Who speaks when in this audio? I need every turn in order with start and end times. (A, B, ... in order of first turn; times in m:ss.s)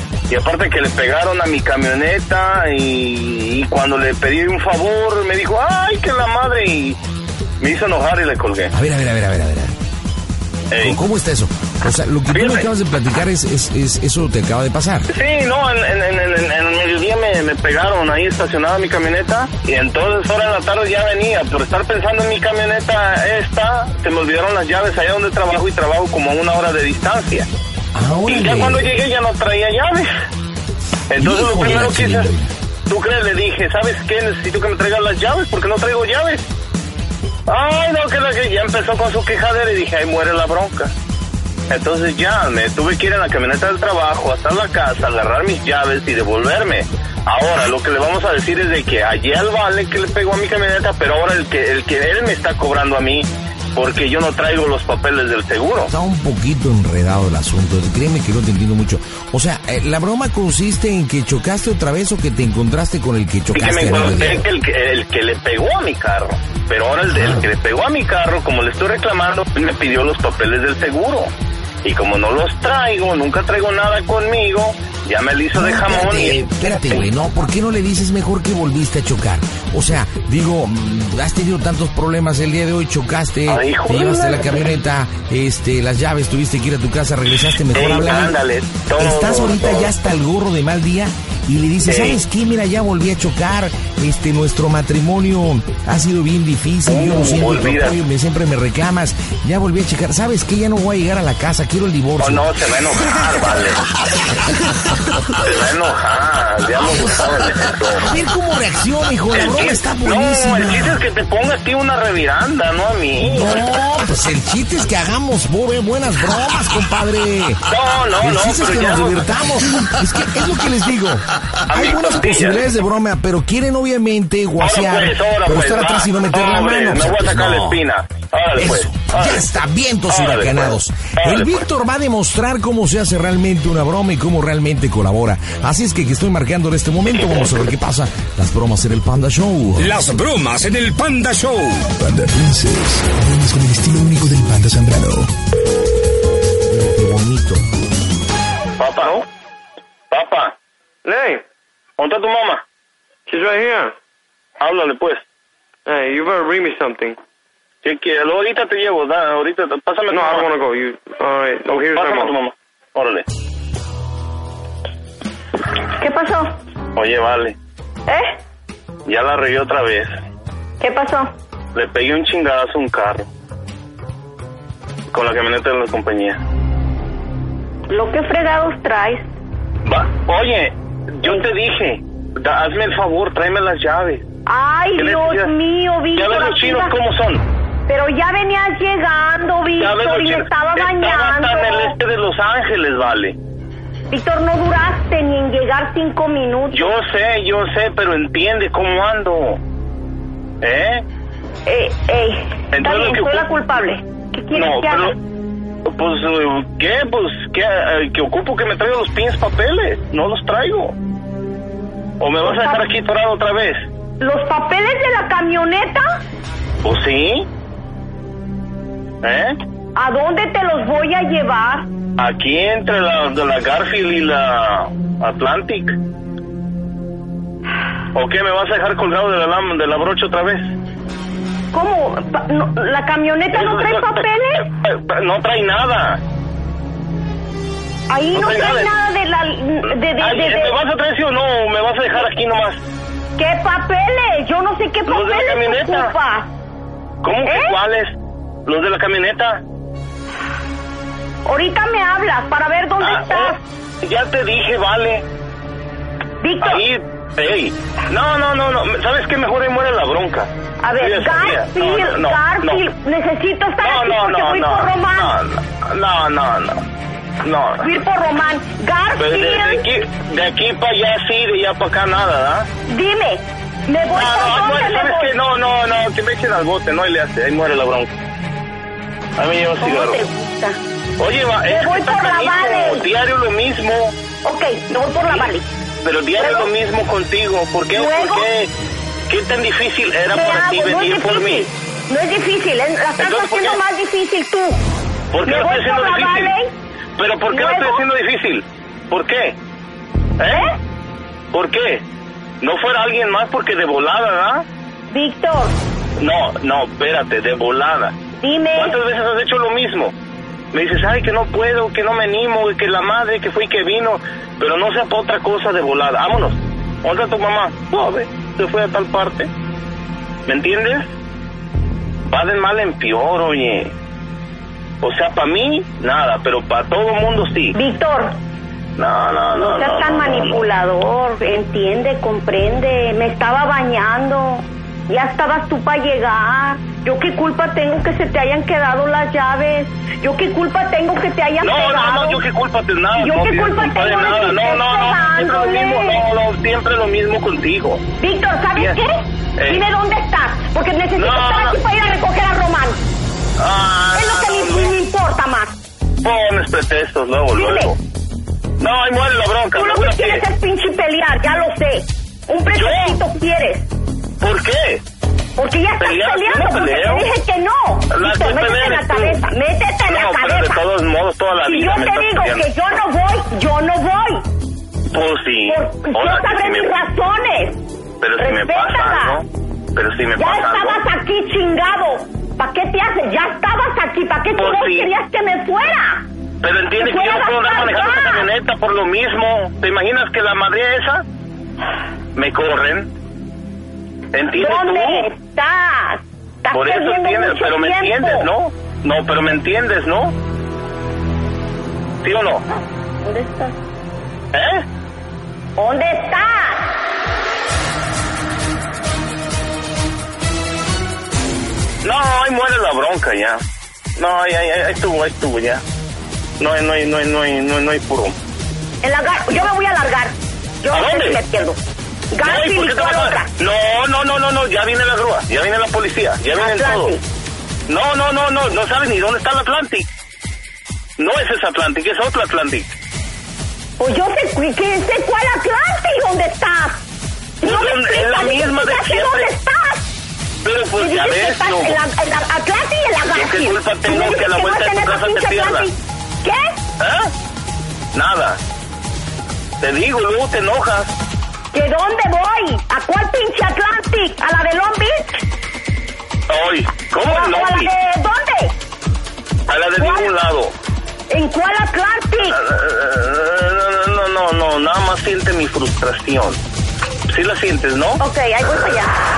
0:00.3-0:07.0 A
0:07.6-0:08.7 A
0:08.7-0:09.8 B
0:10.7-0:11.0 A
0:10.8-0:15.1 B
0:12.3-0:12.6 A
0:15.1-0:27.5 A
0:27.9-0:28.9 B
0:28.3-0:30.1 A
0:31.1-0:32.3 A
0:31.2-0:32.5 B
0:32.9-0:36.4 A
0:37.5-0:40.9 A
0:41.7-0:55.9 A
0:55.9-1:04.5 B
1:03.5-1:11.3 A
1:07.1-1:07.5 B
1:11.8-1:16.4 A
1:15.5-1:28.4 B
1:23.5-1:24.7 A
1:27.7-1:29.9 A
1:28.9-1:43.4 B
1:31.8-1:32.2 A
1:36.9-1:38.0 A
1:42.2-1:43.8 A
1:45.4-1:48.1 A
1:48.0-1:51.0 B
1:49.3-1:53.6 A
1:53.2-1:57.6 B
1:57.7-1:59.2 A
1:58.2-2:07.8 B
2:01.7-2:02.6 A
2:04.6-2:09.4 A
2:08.5-2:20.0 B
2:10.1-2:11.6 A
2:19.8-2:21.9 C
2:21.9-2:25.3 D
2:26.6-2:27.6 B
2:28.8-2:29.2 A
2:30.1-2:30.5 A
2:31.0-2:31.4 E
2:32.0-2:32.6 A
2:33.3-2:33.9 E
2:34.6-2:35.2 A
2:35.8-2:37.2 E
2:37.8-2:40.5 A
2:40.1-2:42.3 E
2:41.7-2:43.2 A
2:46.0-2:46.6 F
2:47.0-2:47.6 A
2:48.1-2:48.4 F
2:49.0-2:50.1 A
2:50.8-2:51.3 F
2:51.7-2:53.3 A
2:55.1-2:56.4 A
2:57.9-2:59.2 F
2:59.8-3:04.2 A
3:04.4-3:06.9 F
3:05.0-3:05.5 A
3:06.1-3:07.4 A
3:07.9-3:12.0 F
3:09.8-3:13.4 A
3:14.1-3:16.9 F
3:16.7-3:19.6 A
3:20.6-3:21.0 A
3:21.6-3:25.2 F
3:22.7-3:23.5 A
3:24.5-3:25.2 A
3:25.8-3:30.9 A
3:32.2-3:33.9 A
3:32.4-3:32.8 F
3:34.2-3:36.0 F
3:36.8-3:37.5 A
3:39.2-3:39.6 A
3:40.0-3:41.9 F
3:42.2-3:46.0 A
3:48.1-3:50.7 A
3:51.7-3:54.7 F
3:53.5-3:56.2 A
3:58.1-4:00.8 F
3:58.3-3:58.9 A
4:00.2-4:02.8 A
4:03.4-4:06.5 F
4:05.1-4:06.1 A
4:07.2-4:08.1 A
4:07.4-4:07.8 F
4:08.6-4:09.6 A
4:11.4-4:13.6 F
4:13.0-4:15.2 A
4:16.4-4:16.8 F
4:16.6-4:22.8 A
4:20.8-4:25.3 F
4:23.8-4:26.8 A
4:27.4-4:27.9 A
4:27.8-4:29.8 F
4:29.2-4:32.7 A
4:32.9-4:35.3 F
4:34.1-4:38.1 A
4:39.4-4:40.2 A
4:39.8-4:40.8 F
4:41.2-4:44.2 A
4:41.7-4:43.1 F
4:44.4-4:45.6 F
4:46.0-4:48.7 A
4:46.4-4:46.7 F
4:47.9-4:48.5 F
4:49.3-4:51.7 A
4:50.3-4:54.8 F
4:53.2-4:53.8 A
4:55.3-4:56.5 A
4:55.4-4:56.7 F
4:57.2-4:59.6 A
4:57.5-4:58.0 F
5:00.4-5:00.8 A
5:00.5-5:00.8 F
5:01.5-5:02.0 A
5:02.6-5:04.6 A
5:05.1-5:05.8 F
5:06.2-5:08.2 A
5:08.4-5:08.9 F
5:08.8-5:10.1 A
5:10.7-5:19.5 A
5:20.5-5:21.1 A
5:22.3-5:23.9 A
5:25.0-5:27.7 A
5:27.7-5:28.4 F
5:29.0-5:30.6 A
5:29.5-5:42.4 F
5:41.6-5:48.0 A
5:43.2-5:46.2 F
5:48.2-5:53.0 F
5:49.6-5:49.8 A
5:51.2-5:51.8 A
5:53.6-5:54.9 A
5:54.1-5:55.8 F
5:56.2-5:58.0 A
5:57.5-5:57.9 F
5:58.8-6:00.4 A
5:59.7-6:03.9 F
6:02.7-6:03.2 A
6:04.4-6:05.0 A
6:05.6-6:10.8 F
6:06.0-6:07.3 A
6:08.1-6:09.4 A
6:10.1-6:12.6 A
6:11.6-6:14.4 F
6:15.1-6:16.9 A
6:15.7-6:17.8 F
6:18.2-6:21.0 A
6:18.4-6:19.4 F
6:20.4-6:26.2 F
6:24.6-6:25.1 A
6:26.6-6:31.2 A
6:27.0-6:28.5 F
6:32.3-6:33.1 A
6:34.3-6:35.2 A
6:34.5-6:38.5 F
6:36.7-6:40.4 A
6:42.2-6:42.6 A
6:43.2-6:43.7 F
6:44.5-6:44.8 A
6:45.8-6:46.9 F
6:52.0-6:53.6 A
6:54.2-6:55.8 A
6:56.6-6:58.4 A
6:59.0-7:01.8 F
7:00.9-7:01.4 A
7:02.3-7:03.5 F
7:02.4-7:07.1 A
7:06.5-7:07.2 F
7:07.9-7:10.1 A
7:11.2-7:12.9 A
7:14.0-7:17.0 F
7:17.6-7:20.1 F
7:17.6-7:19.5 A
7:20.6-7:22.0 A
7:21.0-7:26.8 F
7:23.3-7:25.9 A
7:27.0-7:27.3 A
7:28.1-7:28.6 A
7:29.8-7:31.1 A
7:31.7-7:35.4 F
7:36.5-7:37.9 A
7:37.2-7:38.7 F
7:39.7-7:40.7 A
7:40.0-7:40.3 F
7:41.3-7:42.6 F
7:42.5-7:46.6 A
7:47.3-7:48.9 A
7:48.2-7:49.1 F